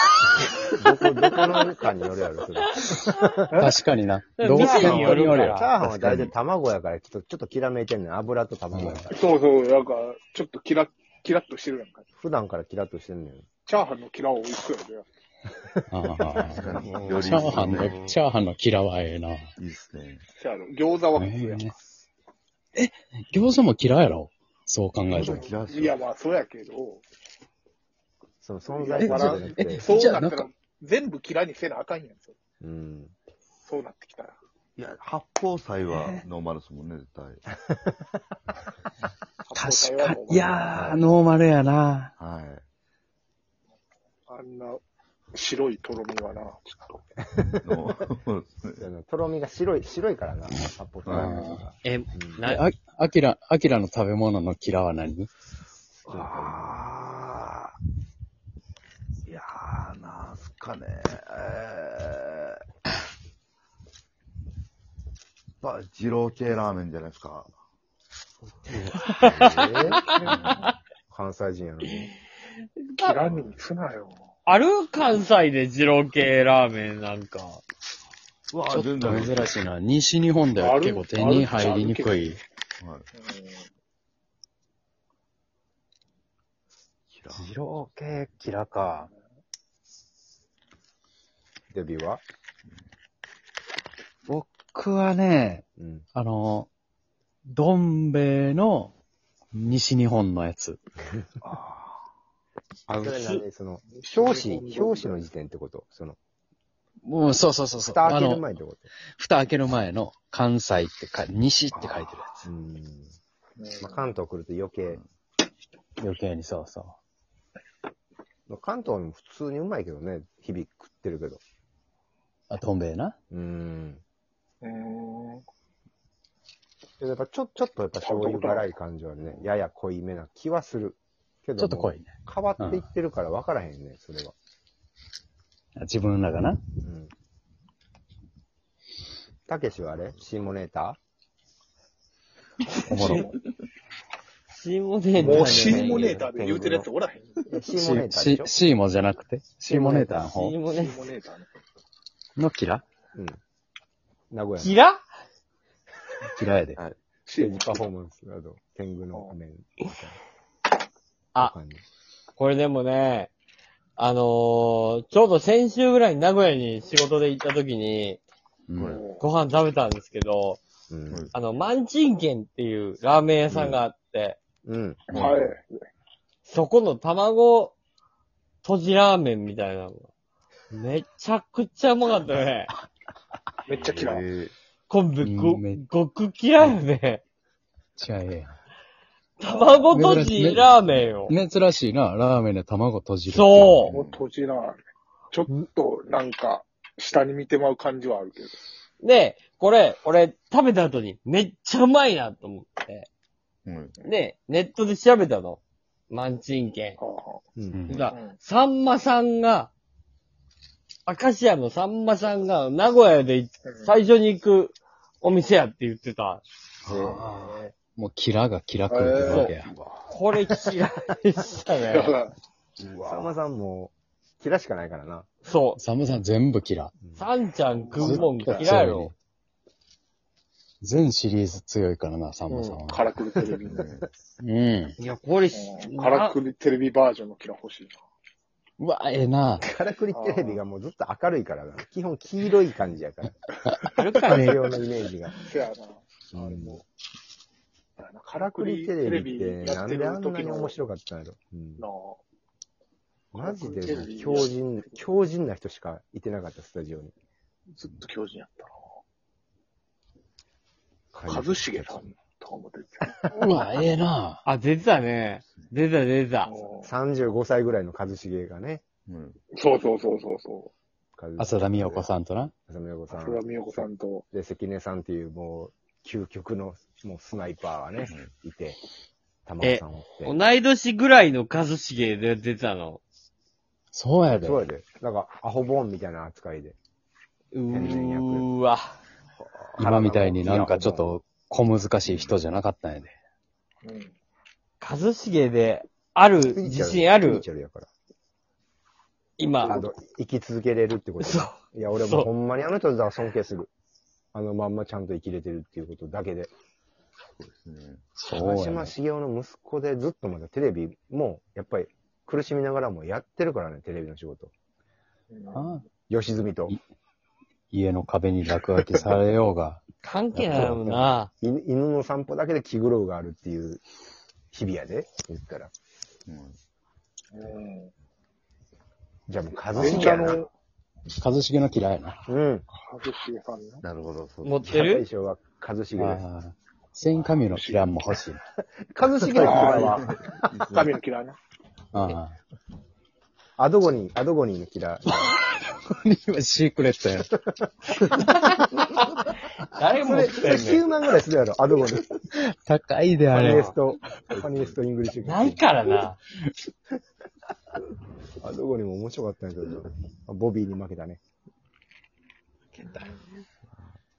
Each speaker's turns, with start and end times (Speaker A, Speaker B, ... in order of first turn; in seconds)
Speaker A: 0.7-3.5, 4.5-9.1, 12.2-13.5, 16.0-17.8, 28.4-29.9, 32.6-33.1, 40.7-41.1, 47.2-47.8, 48.8-52.4, 56.1-56.8, 68.7-70.2, 71.1-72.1, 91.7-92.2, 95.8-96.1, 102.9-106.2, 107.8-108.9, 112.5-113.1, 113.8-115.0, 118.5-121.4, 123.3-124.0, 127.0-134.3, 136.8-137.1, 139.5-141.0, 145.4-146.9, 147.5-148.5, 154.3-154.8, 157.4-160.2, 161.4-161.8, 170.9-171.2, 174.7-175.0, 207.6-207.8, 216.9-217.7, 222.8-225.3, 227.0-227.3, 239.6-243.4, 244.3-245.4, 246.3-246.8, 248.3-251.8, 253.3-257.1, 261.1-262.1, 266.8-268.8, 271.2-271.9, 272.7-273.4, 274.3-278.8, 279.5-280.4, 284.3-286.8, 287.7-288.5, 289.8-291.2, 296.4-297.9, 299.6-303.7, 304.3-306.5, 308.3-314.5, 316.1-316.8, 320.3-323.8, 324.5-325.7, 329.3-330.4, 332.3-332.7, 334.7-336.2, 338.9-340.9, 343.6-345.4, 350.0-352.1, 353.3-355.6, 358.4-361.2
Speaker B: 3.5-3.8, 9.1-12.1, 13.7-15.1, 20.4-21.7, 25.1-27.0, 28.6-32.4, 33.6-34.4, 39.5-40.9, 44.3-44.8, 45.3-47.0, 70.1-70.7, 73.0-74.3, 80.6-82.4, 83.2-83.7, 104.0-105.2, 113.6-114.1, 124.6-125.4, 128.0-128.7, 145.2-147.4, 150.6-151.5, 157.3-157.8, 168.9-169.3, 175.1-175.7, 183.7-184.3, 189.5-190.2, 193.9-198.6, 207.0-207.4, 218.9-219.6, 221.8-222.3, 227.8-228.7, 232.5-233.9, 235.5-238.0, 240.1-240.6, 245.4-246.8, 248.0-250.8, 251.8-252.2, 253.3-255.0, 257.8-258.9, 261.3-263.2, 266.4-266.9, 269.6-270.7, 273.1-274.2, 293.8-294.1, 315.3-315.7, 327.3-327.9, 329.7-330.5, 332.7-333.8, 337.4-337.9, 339.4-341.4
Speaker C: 3.6-6.2, 8.7-9.1, 15.9-19.5, 21.1-21.7, 22.7-25.4, 29.0-30.5, 35.9-36.2, 39.5-42.1, 51.2-51.6, 52.4-55.3, 78.7-82.4, 87.3-89.1, 94.3-95.6, 96.2-96.7, 97.5-99.0, 99.5-100.8, 107.0-108.4, 109.1-112.5, 116.0-117.0, 122.5-123.2, 131.6-132.9, 135.8-136.6, 142.9-143.3, 147.7-150.6, 152.4-152.8, 156.3-156.8, 168.7-168.9, 185.2-185.9, 188.0-188.6, 189.9-193.9, 207.7-208.2, 216.8-219.8, 225.8-227.0, 228.0-229.1, 230.8-233.1, 234.4-234.9, 238.8-239.7, 243.7-244.6, 263.3-264.4, 271.4-272.5, 283.9-284.6, 289.8-293.1, 308.2-308.9, 315.5-315.9, 317.7-319.9, 320.5-320.8, 331.2-332.2, 336.0-338.4, 341.9-342.4, 345.2-347.4, 352.4-353.5
Speaker D: 4.4-5.8, 51.8-52.6, 69.0-70.2, 74.5-77.6, 103.0-103.4, 143.0-143.3, 144.5-146.2, 149.7-151.0, 154.6-155.0, 162.3-163.3, 164.0-168.2, 169.0-170.6, 171.3-174.4, 176.5-177.8, 178.6-180.1, 180.7-182.7, 184.9-187.2, 189.4-191.4, 193.3-193.9, 199.0-203.1, 204.0-207.0, 207.9-209.7, 211.1-216.4, 219.3-219.6, 220.1-222.1, 225.4-225.8, 227.1-229.1, 235.0-236.4, 244.0-244.6, 264.4-266.5, 279.6-283.0, 287.5-288.9, 294.8-297.4, 299.4-299.8, 301.2-302.3, 320.0-321.3, 334.4-335.1, 349.6-350.9, 353.4-353.7, 355.2-356.2
Speaker E: 16.5-18.2, 19.6-20.2, 25.1-26.0, 34.8-37.4, 42.2-42.6, 47.6-48.8, 56.1-57.8, 59.3-62.6, 65.6-67.5, 69.2-70.6, 73.2-73.6, 78.5-79.6, 82.8-83.1, 87.1-87.5, 101.4-102.0, 111.7-112.1, 168.8-169.0, 175.1-175.4, 183.7-184.5, 193.9-194.2, 203.7-204.0, 233.6-234.1, 269.1-269.4, 278.0-278.3, 292.1-292.4, 307.4-308.0, 326.3-326.6, 333.8-334.8, 340.0-340.7